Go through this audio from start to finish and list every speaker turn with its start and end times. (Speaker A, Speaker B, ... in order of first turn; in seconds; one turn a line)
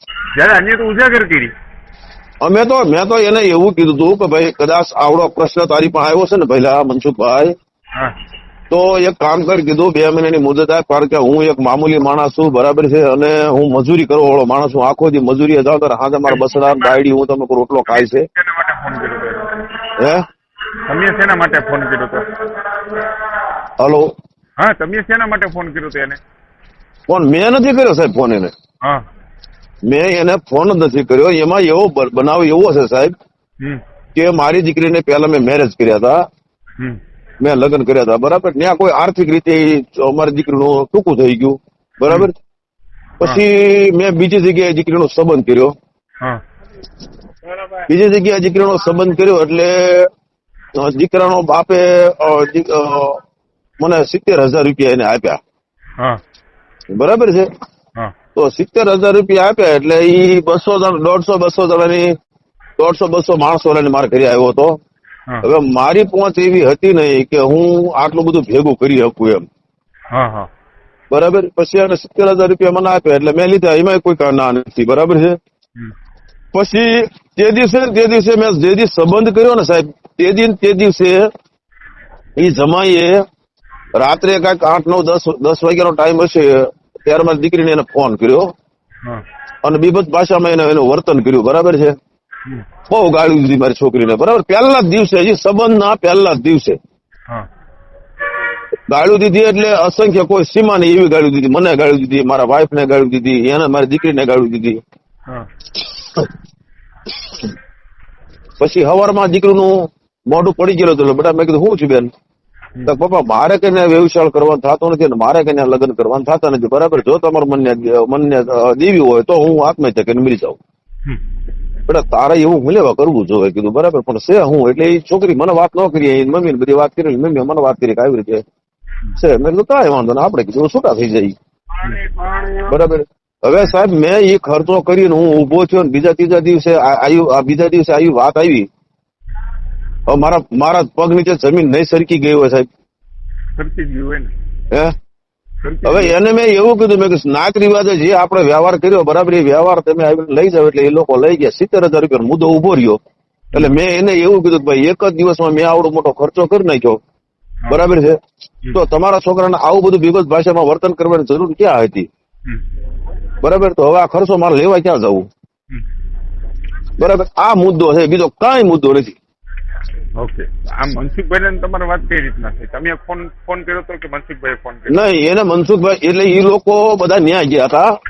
Speaker A: 0.3-1.5
Speaker B: 2.4-7.5
Speaker B: 8.7-18.3
Speaker A: 16.3-17.0
Speaker A: 17.9-19.5
Speaker B: 20.0-20.2
Speaker A: 20.9-22.2
Speaker B: 23.8-24.1
Speaker A: 24.6-26.2
Speaker B: 27.1-28.5
Speaker B: 29.9-33.1
Speaker B: 34.1-36.2
Speaker B: 37.4-42.3
Speaker B: 43.2-45.7
Speaker B: 47.9-50.1
Speaker B: 50.8-53.2
Speaker B: 53.8-55.4
Speaker B: 56.9-57.5
Speaker B: 58.4-62.1
Speaker B: 62.8-64.8
Speaker B: 65.4-69.4
Speaker A: 70.1-70.5
Speaker B: 71.1-75.4
Speaker B: 76.5-81.2
Speaker B: 82.4-83.2
Speaker B: 83.9-88.5
Speaker B: 89.6-91.9
Speaker B: 92.9-96.8
Speaker B: 98.9-104.8
Speaker B: 108.6-112.1
Speaker B: 112.9-120.6
Speaker B: 121.9-128.4
Speaker B: 129.2-131.3
Speaker A: 131.8-132.8
Speaker B: 132.7-138.7
Speaker B: 140.1-142.7
Speaker A: 143.6-144.3
Speaker A: 145.6-146.1
Speaker B: 145.8-153.0
Speaker B: 153.5-157.0
Speaker B: 157.7-158.2
Speaker B: 158.7-162.1
Speaker B: 163.4-165.3
Speaker B: 167.0-169.2
Speaker A: 170.2-175.0
Speaker B: 174.9-177.9